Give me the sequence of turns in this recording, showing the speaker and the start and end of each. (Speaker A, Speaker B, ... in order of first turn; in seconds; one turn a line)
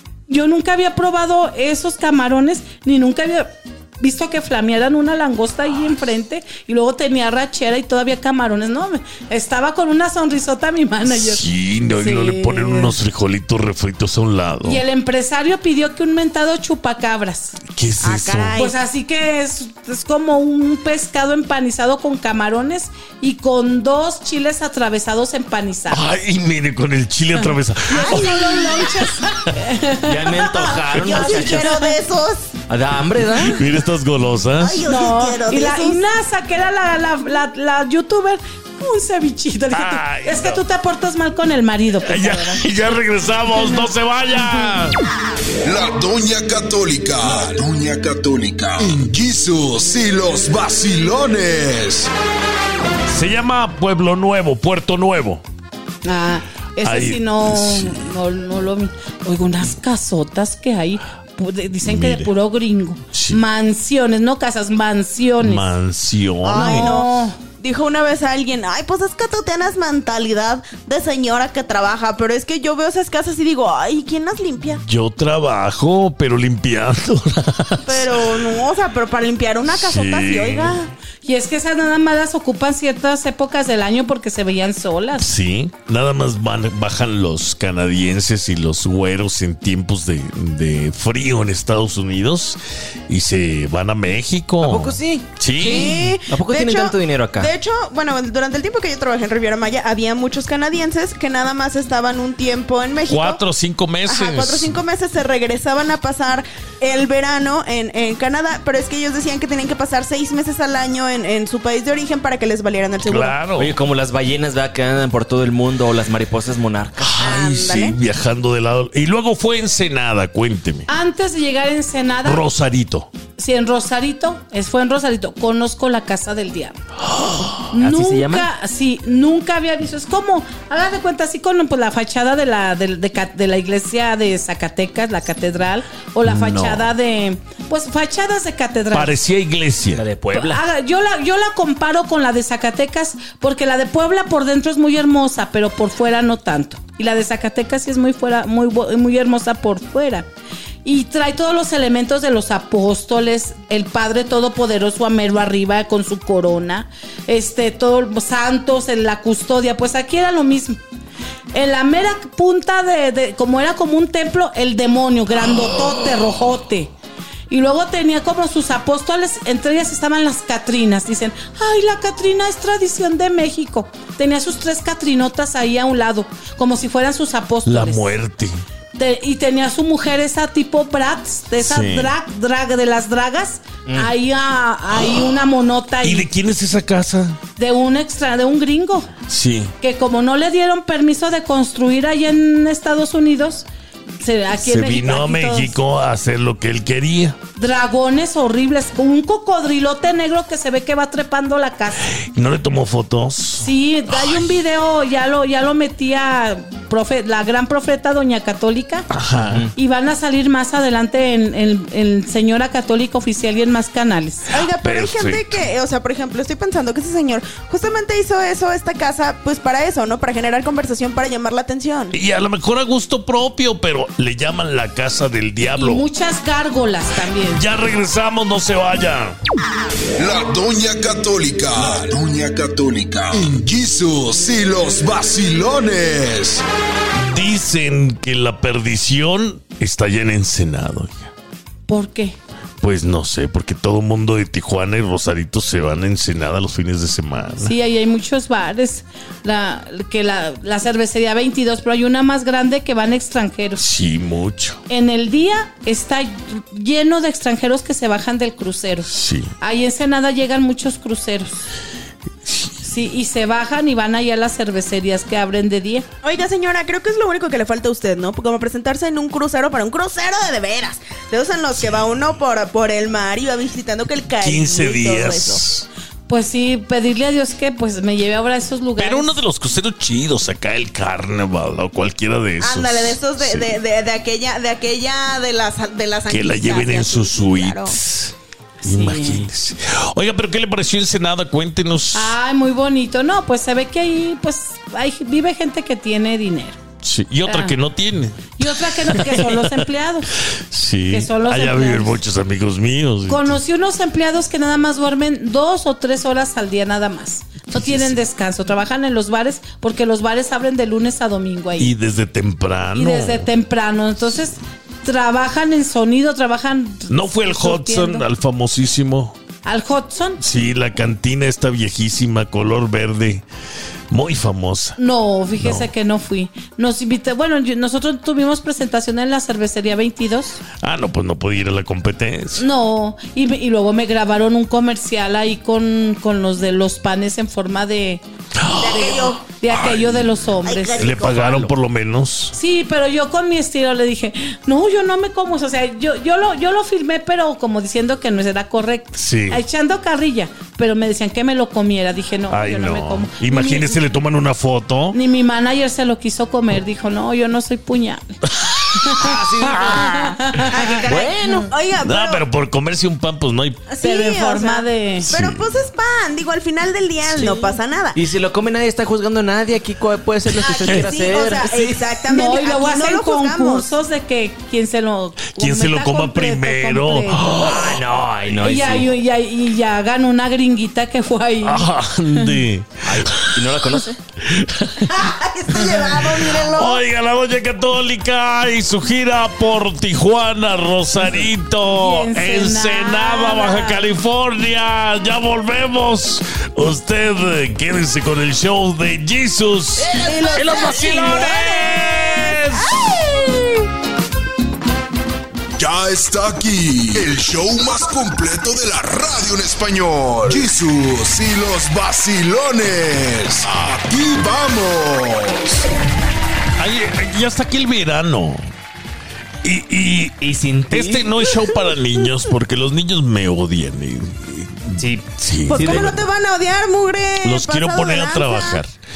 Speaker A: 0.3-13.0
Speaker B: 11.1-14.8
Speaker A: 14.6-17.6
Speaker B: 17.7-18.6
Speaker C: 18.0-18.8
Speaker A: 18.6-26.1
Speaker B: 25.9-28.9
Speaker A: 27.9-31.9
Speaker C: 27.9-29.1
Speaker D: 30.0-31.8
Speaker C: 30.6-32.5
Speaker D: 32.7-33.6
Speaker B: 33.4-34.8
Speaker C: 34.5-36.0
Speaker A: 34.8-42.6
Speaker B: 39.7-40.6
Speaker B: 42.0-45.0
Speaker A: 43.5-43.9
Speaker E: 45.6-52.1
Speaker B: 53.1-55.4
Speaker A: 56.0-65.7
Speaker B: 56.8-58.1
Speaker B: 61.8-62.3
Speaker B: 63.1-63.4
Speaker B: 65.4-67.0
Speaker C: 66.4-74.8
Speaker A: 66.5-67.4
Speaker B: 74.8-78.2
Speaker C: 77.8-80.9
Speaker B: 79.7-80.8
Speaker A: 81.2-85.3
Speaker B: 85.2-96.1
Speaker D: 94.6-97.5
Speaker C: 95.6-103.4
Speaker B: 103.1-104.7
Speaker C: 104.0-113.4
Speaker B: 113.1-113.8
Speaker D: 113.6-117.2
Speaker B: 117.0-120.9
Speaker C: 117.2-118.0
Speaker A: 120.9-122.4
Speaker B: 122.2-123.1
Speaker A: 123.3-126.8
Speaker B: 127.1-127.7
Speaker D: 127.6-128.5
Speaker A: 127.7-139.2
Speaker B: 136.2-136.9
Speaker B: 138.9-140.1
Speaker D: 139.9-140.6
Speaker A: 140.3-150.3
Speaker A: 150.8-160.8
Speaker A: 161.5-166.9
Speaker A: 167.5-178.1
Speaker B: 177.7-178.6
Speaker A: 178.9-186.3
Speaker B: 181.6-182.1
Speaker D: 183.8-184.1
Speaker B: 186.0-187.4
Speaker A: 187.6-189.1
Speaker B: 189.3-189.7
Speaker A: 189.8-193.7
Speaker A: 194.2-195.8
Speaker B: 194.5-197.4
Speaker A: 197.6-202.1
Speaker B: 202.3-204.4
Speaker A: 203.6-209.1
Speaker B: 209.1-209.7
Speaker A: 209.7-214.5
Speaker C: 214.5-222.1
Speaker B: 214.8-215.6
Speaker B: 222.1-226.0
Speaker A: 225.7-227.6
Speaker B: 227.5-229.3
Speaker E: 230.2-236.6
Speaker B: 237.1-241.3
Speaker A: 241.9-242.4
Speaker B: 242.8-247.8
Speaker A: 247.6-253.8
Speaker B: 253.8-254.8
Speaker A: 254.9-261.6
Speaker B: 259.1-259.5
Speaker B: 262.4-262.7
Speaker A: 262.8-266.1
Speaker C: 266.2-275.6
Speaker B: 274.4-275.9
Speaker A: 276.3-279.4
Speaker B: 279.0-283.7
Speaker C: 282.6-288.0
Speaker B: 286.3-292.3
Speaker A: 288.8-289.5
Speaker A: 292.1-296.8
Speaker B: 297.0-299.8
Speaker A: 297.4-297.8
Speaker A: 298.6-300.3
Speaker B: 300.6-303.6
Speaker A: 301.1-302.2
Speaker A: 303.3-311.9
Speaker B: 307.7-308.1
Speaker B: 311.8-313.5
Speaker A: 312.9-318.2
Speaker B: 317.1-319.4
Speaker A: 319.6-320.4
Speaker B: 320.4-323.4
Speaker B: 324.1-325.0
Speaker A: 325.0-330.6
Speaker B: 325.6-325.9
Speaker B: 330.8-332.6
Speaker A: 332.6-338.2
Speaker B: 338.6-340.1
Speaker C: 338.7-339.4
Speaker A: 338.8-341.2
Speaker C: 340.6-341.7
Speaker B: 340.9-342.6
Speaker A: 342.5-354.0
Speaker B: 349.1-349.6
Speaker B: 352.5-355.2
Speaker A: 355.1-358.4
Speaker B: 358.5-359.4
Speaker A: 359.0-361.6
Speaker D: 359.1-360.4
Speaker C: 360.7-362.4
Speaker D: 360.9-361.7
Speaker B: 362.0-363.8
Speaker C: 363.9-368.2
Speaker A: 364.0-365.3
Speaker B: 365.2-365.6
Speaker D: 368.1-372.0
Speaker C: 370.6-373.9
Speaker B: 370.8-371.1
Speaker A: 372.3-377.6
Speaker B: 375.6-378.0
Speaker D: 377.4-379.1
Speaker A: 378.6-382.6
Speaker B: 381.6-383.7
Speaker D: 383.0-384.2
Speaker B: 384.4-385.2
Speaker C: 385.1-387.0
Speaker B: 385.8-403.1
Speaker A: 392.0-394.1
Speaker D: 400.0-401.3
Speaker C: 400.2-403.9
Speaker E: 405.8-415.9
Speaker B: 416.8-418.7
Speaker B: 419.6-420.4
Speaker D: 420.4-421.6
Speaker B: 420.9-426.2
Speaker C: 421.7-422.3
Speaker D: 424.9-426.1
Speaker C: 425.7-428.8
Speaker B: 427.4-428.9